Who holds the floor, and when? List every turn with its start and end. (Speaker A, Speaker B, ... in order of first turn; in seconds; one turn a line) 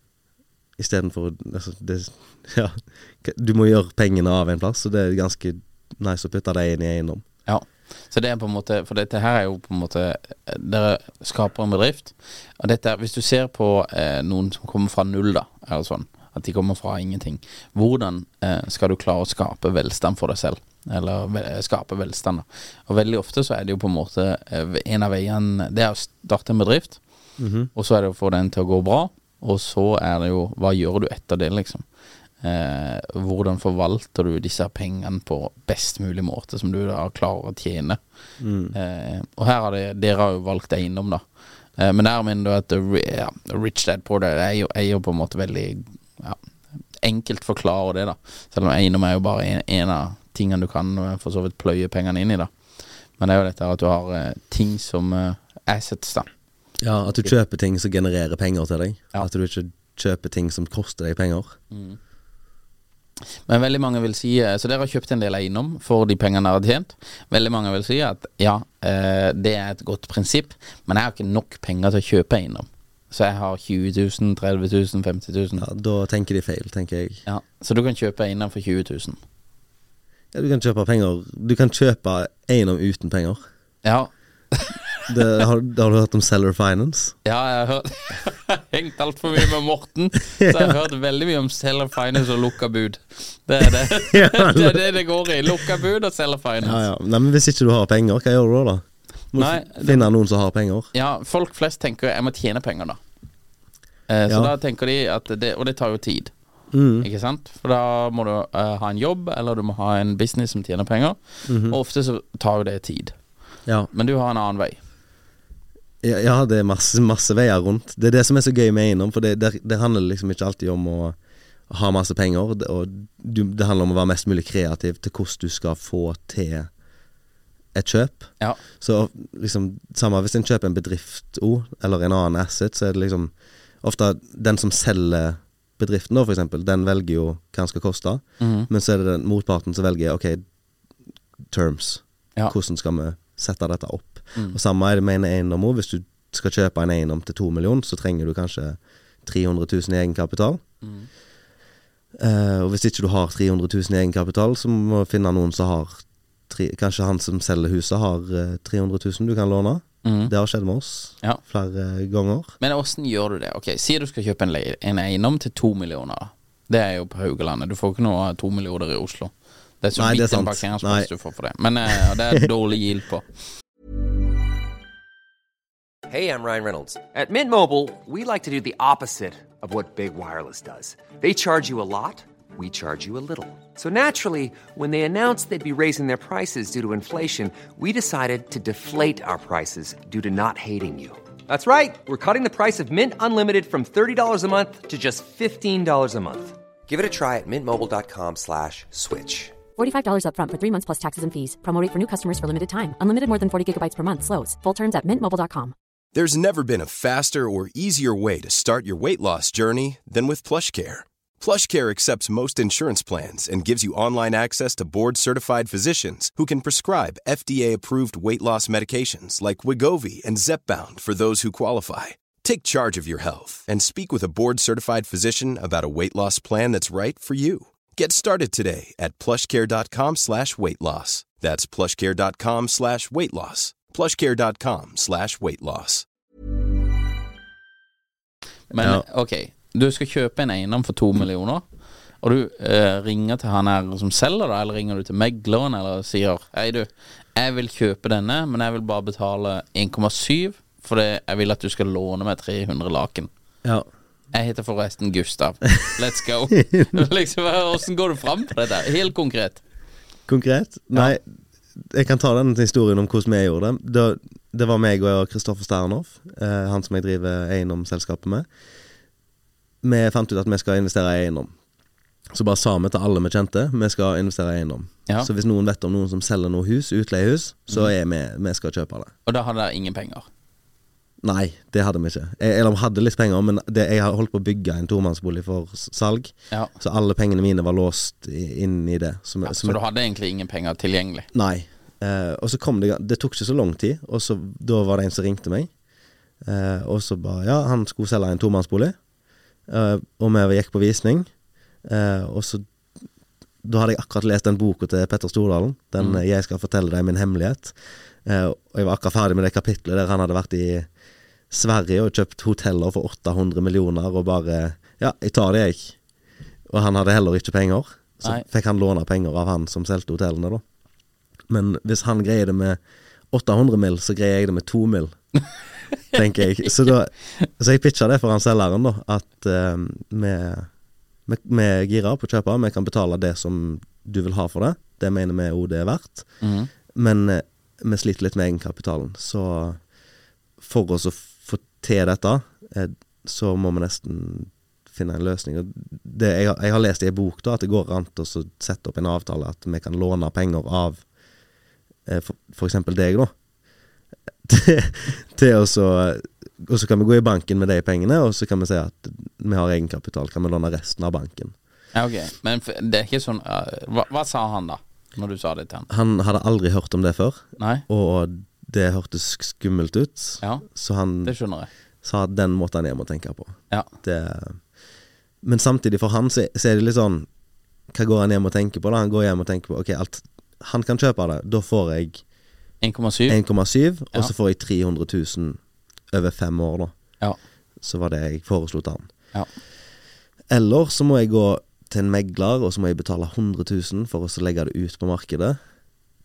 Speaker A: 0.8-7.2
Speaker B: 7.5-27.0
Speaker A: 27.4-27.7
Speaker B: 27.8-31.8
Speaker B: 32.4-38.0
Speaker A: 38.4-38.8
Speaker B: 38.7-41.2
Speaker B: 41.8-46.4
Speaker B: 47.0-52.5
Speaker B: 53.2-56.3
Speaker A: 56.8-61.6
Speaker B: 61.7-62.0
Speaker B: 63.5-75.7
Speaker A: 75.6-77.2
Speaker B: 77.3-79.2
Speaker A: 80.3-83.4
Speaker B: 83.8-85.3
Speaker A: 85.1-87.2
Speaker B: 87.2-96.8
Speaker A: 90.4-90.7
Speaker A: 93.9-94.8
Speaker A: 96.6-100.9
Speaker B: 99.3-100.1
Speaker B: 100.9-103.0
Speaker B: 104.1-106.3
Speaker A: 106.7-107.1
Speaker B: 107.0-113.2
Speaker A: 111.5-111.8
Speaker B: 113.9-114.8
Speaker A: 116.0-121.2
Speaker A: 121.7-126.7
Speaker A: 127.7-140.4
Speaker B: 138.4-138.7
Speaker A: 141.5-150.6
Speaker B: 150.8-151.1
Speaker A: 152.2-162.6
Speaker B: 160.0-160.3
Speaker B: 162.6-173.3
Speaker A: 169.9-171.1
Speaker C: 176.1-199.6
Speaker D: 199.8-205.7
Speaker E: 206.1-236.1
Speaker B: 238.7-241.6
Speaker A: 238.8-239.0
Speaker B: 242.2-253.3
Speaker B: 254.3-259.6
Speaker A: 256.7-257.0
Speaker A: 260.3-261.2
Speaker A: 261.8-268.5
Speaker A: 269.8-271.5
Speaker A: 272.3-279.1
Speaker B: 279.3-280.3
Speaker A: 281.2-289.8
Speaker B: 289.5-291.3
Speaker A: 291.3-295.7
Speaker A: 296.4-299.0
Speaker A: 299.7-301.3
Speaker A: 301.8-302.6
Speaker A: 303.6-310.9
Speaker A: 311.5-316.0
Speaker A: 316.7-320.6
Speaker A: 321.5-322.8
Speaker A: 323.3-325.2
Speaker A: 326.1-330.7
Speaker B: 326.2-326.7
Speaker A: 331.3-336.3
Speaker B: 336.4-336.7
Speaker A: 336.9-339.8
Speaker A: 340.6-351.0
Speaker A: 352.1-353.3
Speaker A: 354.4-361.5
Speaker B: 361.9-365.9
Speaker A: 365.9-371.4
Speaker B: 367.6-367.8
Speaker B: 370.4-370.7
Speaker B: 371.2-371.7
Speaker A: 372.0-374.6
Speaker A: 375.4-377.3
Speaker A: 377.9-382.2
Speaker B: 382.8-383.4
Speaker A: 383.3-385.6
Speaker A: 386.1-386.9
Speaker A: 387.8-389.1
Speaker A: 390.5-395.6